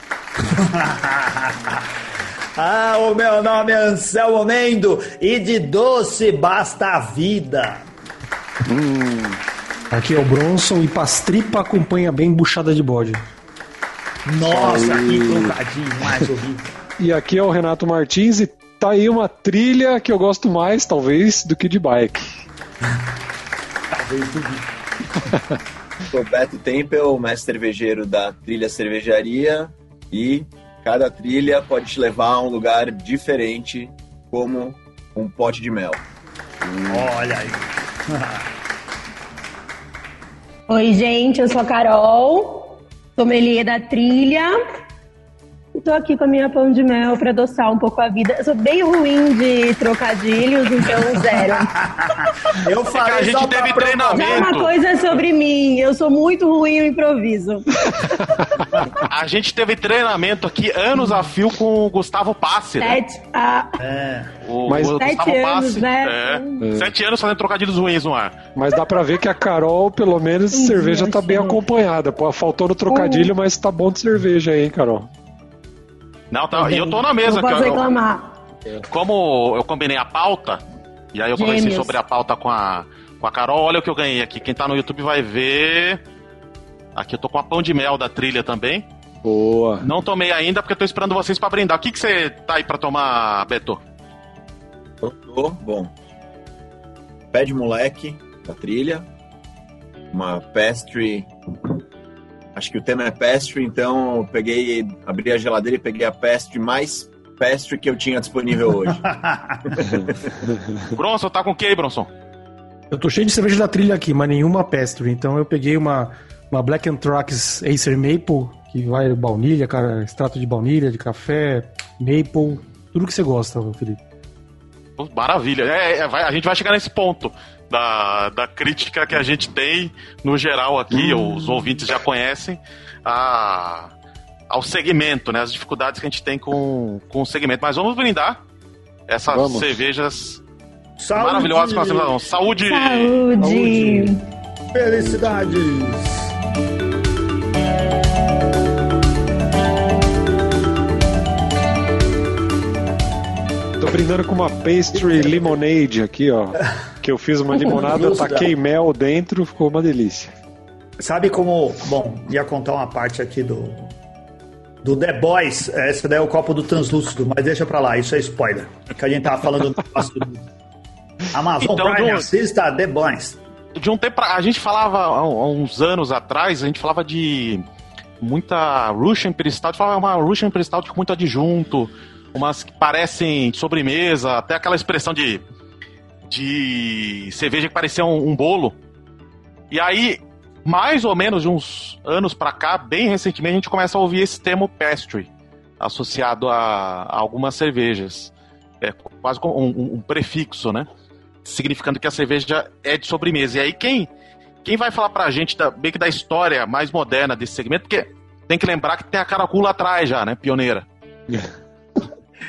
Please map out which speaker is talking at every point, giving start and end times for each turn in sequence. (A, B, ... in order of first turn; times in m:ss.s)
0:00.4-0:01.8 A
0:02.6-0:07.8 A
0:08.7-0:09.4 B
0:09.9-0:13.2 C
0:14.2-0:16.7 A
0:14.5-0:15.5 B
0:17.0-0:22.4 B
0:23.9-0:24.6 A
0:26.0-0:36.0 D
0:36.7-0:37.1 B
0:36.9-0:38.4 A
0:40.7-0:44.5 E
0:45.7-0:51.7 E
0:51.6-0:54.5 A
0:52.9-0:54.7 F
0:54.1-0:58.4 E
0:58.9-1:03.0 F
1:02.8-1:03.8 E
1:03.8-1:04.3 A
1:04.4-1:08.4 F
1:04.7-1:05.0 B
1:04.8-1:06.6 E
1:06.6-1:06.9 B
1:08.6-1:15.1 B
1:10.5-1:11.6 E
1:12.9-1:13.3 E
1:16.3-1:17.9 F
1:16.6-1:18.3 E
1:18.7-1:20.6 F
1:21.1-1:26.0 F
1:21.4-1:22.0 E
1:27.0-1:28.8 F
1:29.2-1:29.9 B
1:29.8-1:33.8 F
1:35.0-1:35.9 D
1:37.3-1:39.1 D
1:40.1-1:41.8 D
1:42.5-1:49.1 D
1:49.1-1:49.6 A
1:49.6-1:50.3 D
1:50.9-1:52.1 F
1:52.9-2:04.0 C
2:05.0-2:13.9 F
2:10.9-2:11.6 B
2:14.5-2:18.4 F
2:19.1-2:20.4 F
2:19.3-2:19.8 B
2:21.0-2:22.1 A
2:21.1-2:23.3 F
2:22.6-2:24.2 E
2:23.5-2:24.0 B
2:24.7-2:26.2 A
2:25.0-2:25.6 B
2:33.8-2:40.3 B
2:37.7-2:38.5 A
2:41.0-2:43.9 A
2:44.8-2:50.4 A
2:51.3-2:53.4 A
2:51.6-2:52.3 F
2:53.7-2:57.6 F
2:58.2-3:05.4 F
3:06.3-3:08.8 F
3:09.7-3:20.9 F
3:21.4-3:24.1 F
3:24.6-3:30.8 F